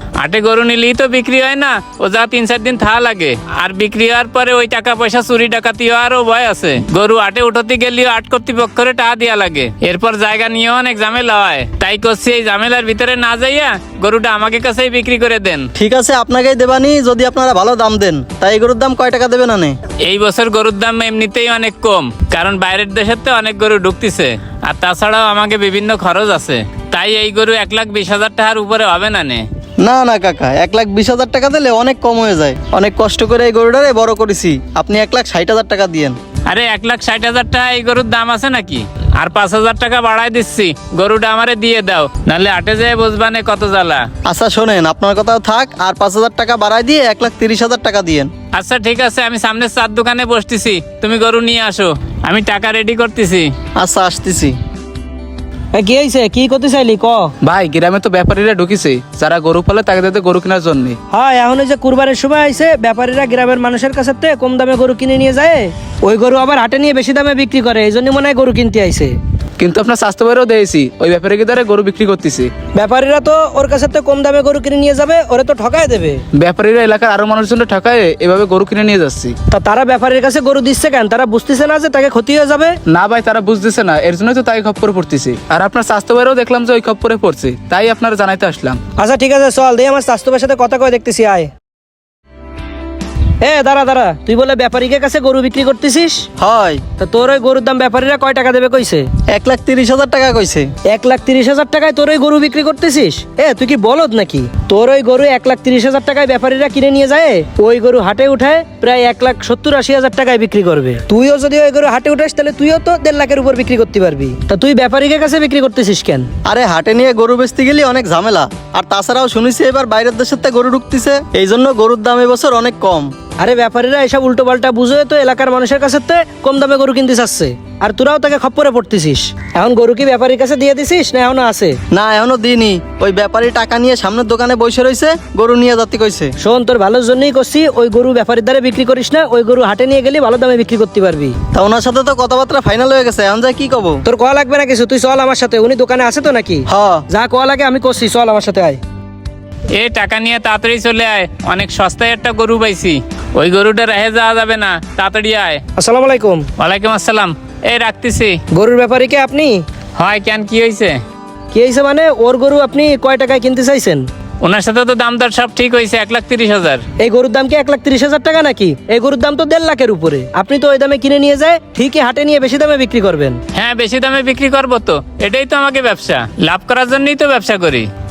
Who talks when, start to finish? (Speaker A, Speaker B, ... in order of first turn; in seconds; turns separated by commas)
Speaker A: 0.2-15.7, Speaker B: 15.8-19.8, Speaker A: 20.1-29.4, Speaker B: 29.8-36.2, Speaker A: 36.5-44.1, Speaker B: 44.2-48.3, Speaker A: 48.6-53.5, Speaker B: 53.8-54.6, Speaker C: 55.8-57.3, Speaker D: 57.4-61.0, Speaker C: 61.1-69.2, Speaker D: 69.6-72.5, Speaker C: 72.8-76.2, Speaker D: 76.4-79.3, Speaker C: 79.5-82.8, Speaker D: 82.9-88.8, Speaker C: 89.0-91.5, Speaker C: 93.4-96.2, Speaker B: 96.4-96.8, Speaker C: 97.0-99.1, Speaker B: 99.3-100.7, Speaker C: 100.9-116.3, Speaker B: 116.5-123.1, Speaker C: 123.4-131.8, Speaker B: 131.9-136.3, Speaker C: 136.4-141.4, Speaker B: 141.5-144.0, Speaker C: 144.1-148.8, Speaker B: 146.7-147.0, Speaker A: 149.7-155.6, Speaker C: 155.8-156.5, Speaker A: 156.6-158.4, Speaker C: 158.5-159.6, Speaker A: 160.0-161.0, Speaker C: 161.5-164.1, Speaker A: 164.4-166.8, Speaker C: 167.0-173.4, Speaker A: 173.6-177.9